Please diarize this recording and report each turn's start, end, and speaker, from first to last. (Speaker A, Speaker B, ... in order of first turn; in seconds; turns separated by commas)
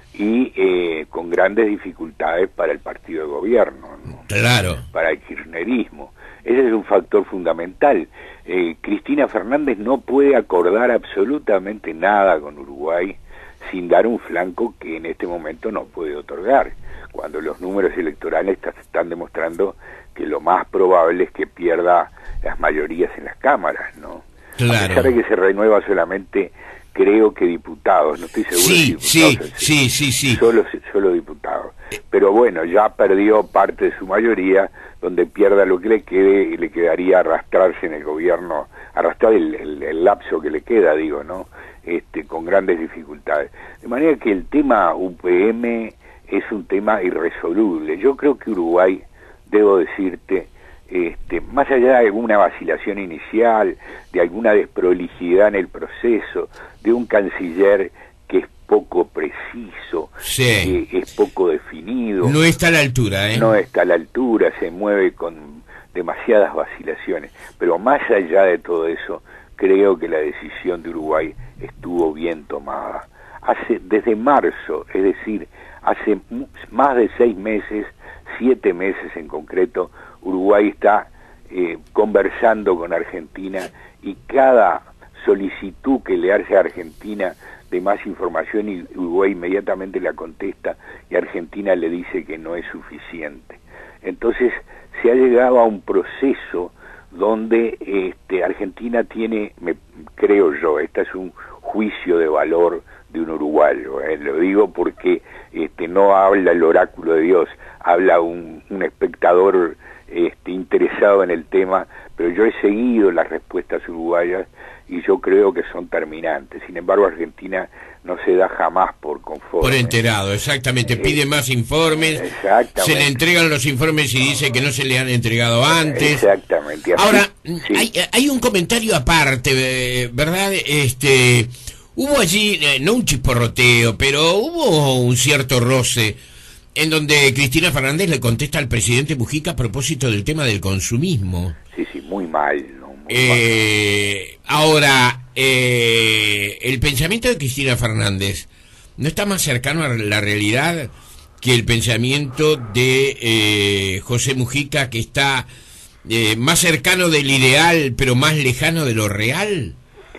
Speaker A: 0.1-4.2, Speaker B: 4.3-4.8, Speaker A: 4.9-29.7, Speaker B: 24.6-25.1, Speaker B: 28.5-30.4, Speaker A: 30.3-62.4, Speaker B: 60.2-60.8, Speaker B: 62.2-63.5, Speaker A: 63.3-120.0, Speaker B: 119.6-122.2, Speaker A: 120.9-121.2, Speaker A: 122.1-123.2, Speaker B: 122.8-126.3, Speaker A: 125.7-127.9, Speaker B: 127.0-136.2, Speaker B: 136.8-141.6, Speaker A: 141.7-143.4, Speaker B: 143.1-155.5, Speaker B: 156.1-159.8